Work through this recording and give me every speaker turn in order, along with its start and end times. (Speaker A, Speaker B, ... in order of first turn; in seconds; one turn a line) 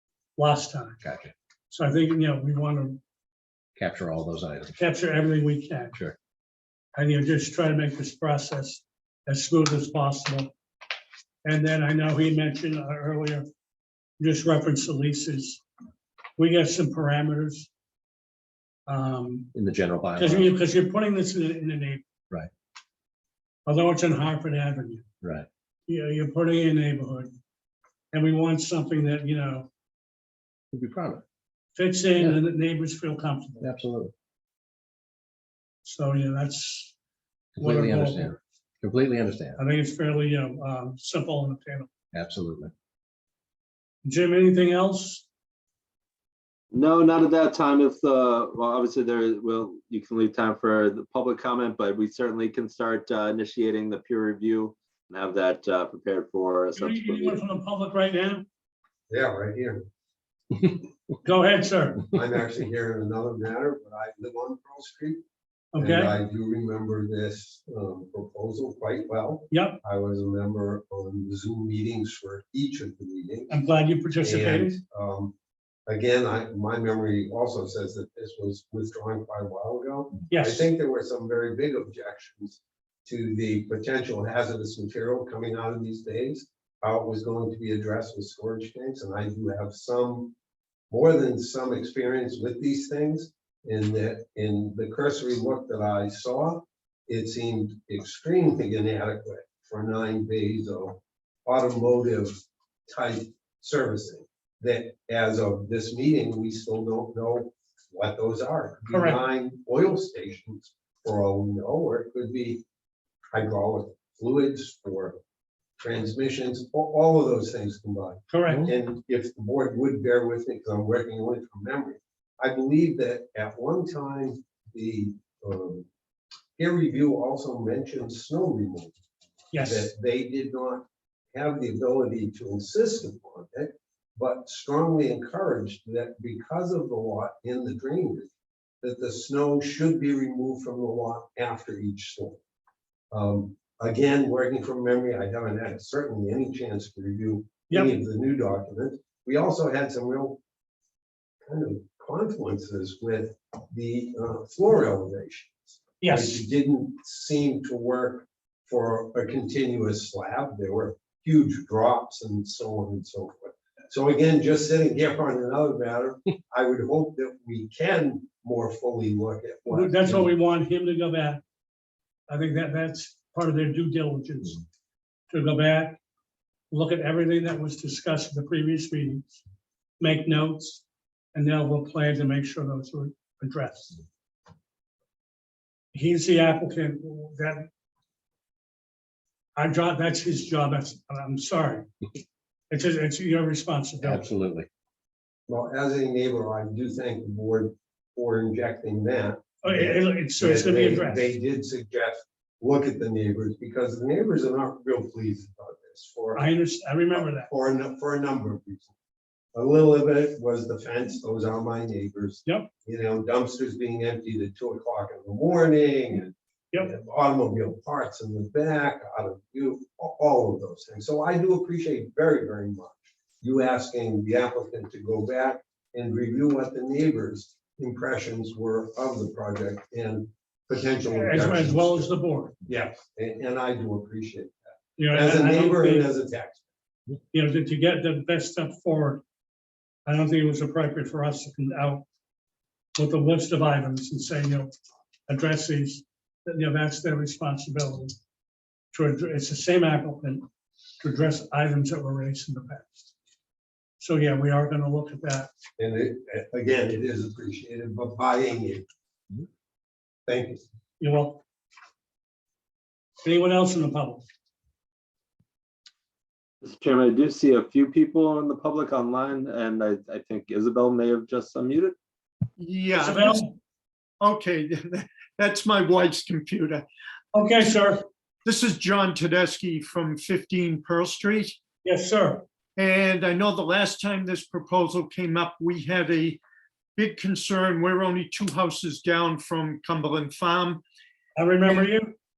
Speaker A: 0.4-1.0
Speaker B: 1.0-1.3
Speaker A: 1.7-3.0
Speaker B: 3.8-4.8
Speaker A: 4.8-6.0
Speaker A: 7.0-10.5
Speaker A: 11.4-13.5
Speaker A: 14.2-15.6
Speaker A: 16.4-17.7
Speaker A: 18.9-19.5
Speaker B: 19.5-20.5
Speaker A: 20.2-22.0
Speaker A: 23.7-25.0
Speaker B: 25.2-25.5
Speaker A: 25.9-27.3
Speaker A: 28.1-29.7
Speaker B: 30.7-31.2
Speaker A: 31.8-33.7
Speaker B: 33.6-34.1
Speaker A: 35.8-36.9
Speaker B: 37.6-39.6
Speaker A: 37.6-38.3
Speaker A: 39.6-41.9
Speaker B: 42.1-42.7
Speaker A: 44.0-45.3
Speaker C: 46.7-57.4
Speaker A: 56.8-58.5
Speaker D: 59.1-59.9
Speaker A: 61.2-62.1
Speaker D: 62.1-65.2
Speaker A: 65.7-66.2
Speaker D: 65.8-73.6
Speaker A: 69.5-69.8
Speaker A: 73.5-74.8
Speaker D: 74.2-75.3
Speaker D: 75.9-90.3
Speaker A: 80.3-80.7
Speaker D: 90.9-112.6
Speaker A: 108.9-109.2
Speaker D: 113.3-115.2
Speaker D: 115.8-125.9
Speaker A: 118.3-118.7
Speaker D: 126.6-128.9
Speaker A: 129.5-129.9
Speaker D: 129.6-138.3
Speaker D: 138.8-142.4
Speaker D: 143.1-150.4
Speaker D: 151.5-170.3
Speaker A: 156.0-156.4
Speaker A: 169.7-171.4
Speaker A: 172.3-174.6
Speaker A: 175.3-176.0
Speaker A: 176.7-179.4
Speaker A: 180.0-184.0
Speaker A: 185.9-187.7
Speaker A: 189.6-191.9
Speaker A: 192.7-194.3
Speaker B: 194.0-194.7
Speaker D: 195.5-206.5
Speaker A: 199.6-201.3
Speaker A: 206.3-207.5
Speaker D: 207.1-208.9
Speaker D: 209.6-236.7
Speaker A: 231.1-232.6
Speaker A: 235.0-236.1
Speaker A: 237.3-239.2
Speaker A: 240.1-242.1
Speaker A: 243.0-244.7
Speaker A: 245.3-248.2
Speaker A: 248.9-250.4
Speaker A: 251.0-253.1
Speaker A: 254.0-255.5
Speaker D: 255.8-258.9
Speaker D: 260.3-260.6
Speaker A: 261.0-261.4
Speaker A: 263.2-264.2
Speaker C: 266.6-272.0
Speaker E: 272.6-273.4
Speaker A: 272.9-273.6
Speaker E: 274.2-276.9
Speaker A: 277.3-278.1
Speaker E: 278.5-281.6
Speaker A: 281.8-282.4
Speaker E: 282.8-286.4
Speaker E: 287.0-290.8
Speaker A: 291.4-292.1